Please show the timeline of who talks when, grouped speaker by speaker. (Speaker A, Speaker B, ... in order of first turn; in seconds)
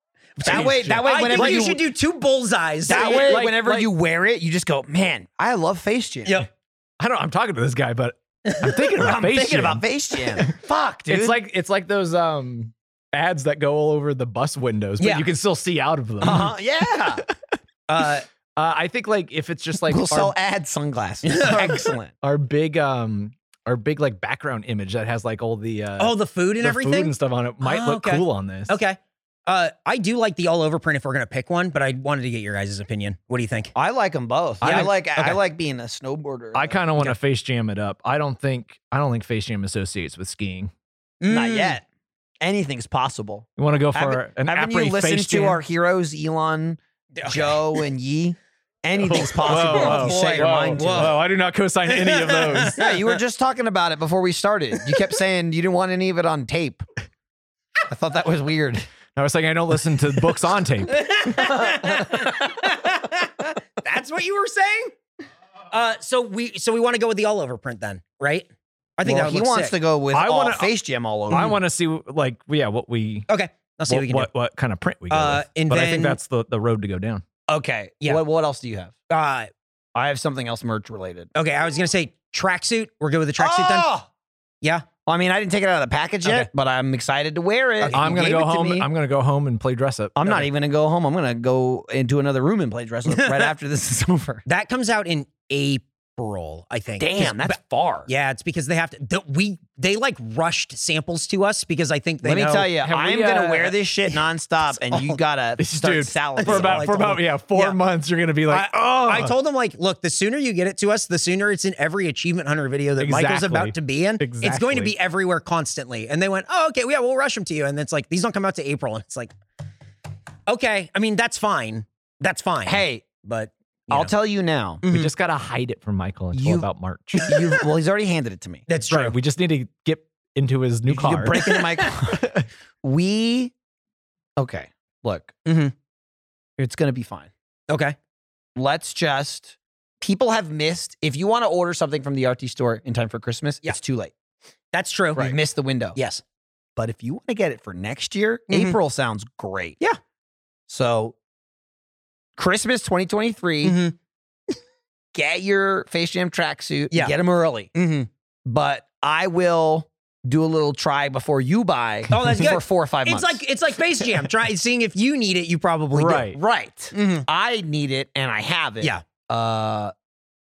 Speaker A: 0.4-3.3, 15.0-15.2, 16.2-16.5, 17.9-18.3, 21.3-21.9, 26.0-33.7, 34.6-35.4, 41.2-41.8, 47.1-47.6, 49.5-51.2, 51.9-52.9, 60.9-65.0, 65.7-69.7, 73.3-74.3, 75.1-76.2, 79.1-79.5, 81.3-83.9, 86.2-86.5, 87.8-88.1, 93.1-93.5, 94.5-102.7, 104.8-105.2, 106.4-107.8, 108.5-119.3, 120.5-124.1, 124.8-125.1, 128.7-129.2, 135.4-135.7, 137.7-138.0, 144.7-145.4, 145.9-146.2, 148.5-148.8, 153.6-153.9, 156.9-157.2, 157.7-158.1, 162.1-166.3, 166.9-167.3
Speaker B: 0.4-1.8, 2.9-6.4, 8.9-11.4, 16.2-17.2, 19.9-22.1, 33.8-37.1, 41.3-41.8, 42.4-51.2, 52.7-56.8, 57.9-58.9, 69.0-71.6, 77.5-78.9, 80.0-81.3, 83.4-84.1, 85.1-88.9, 90.2-94.4, 97.0-98.1, 102.2-106.9, 122.7-123.0, 123.9-124.8, 126.3-126.7, 127.2-128.7, 130.9-133.5, 134.4-135.3, 136.6-137.3, 138.6-144.1, 145.2-146.0, 146.8-149.8, 150.7-151.2, 152.4-153.8, 155.1-157.7, 158.5-163.4, 166.3-169.9
Speaker C: 0.4-1.7, 2.9-3.9, 7.0-10.6, 11.1-16.5, 18.6-20.3, 22.2-28.8, 34.6-34.9, 36.5-40.7, 43.6-45.6, 49.0-52.8, 59.2-61.5, 70.1-70.7, 71.3-73.3, 73.9-77.2, 87.9-90.5, 102.8-103.8, 105.6-109.3, 113.0-114.9, 124.9-127.3, 128.9-131.4, 132.1-132.5, 165.9-166.4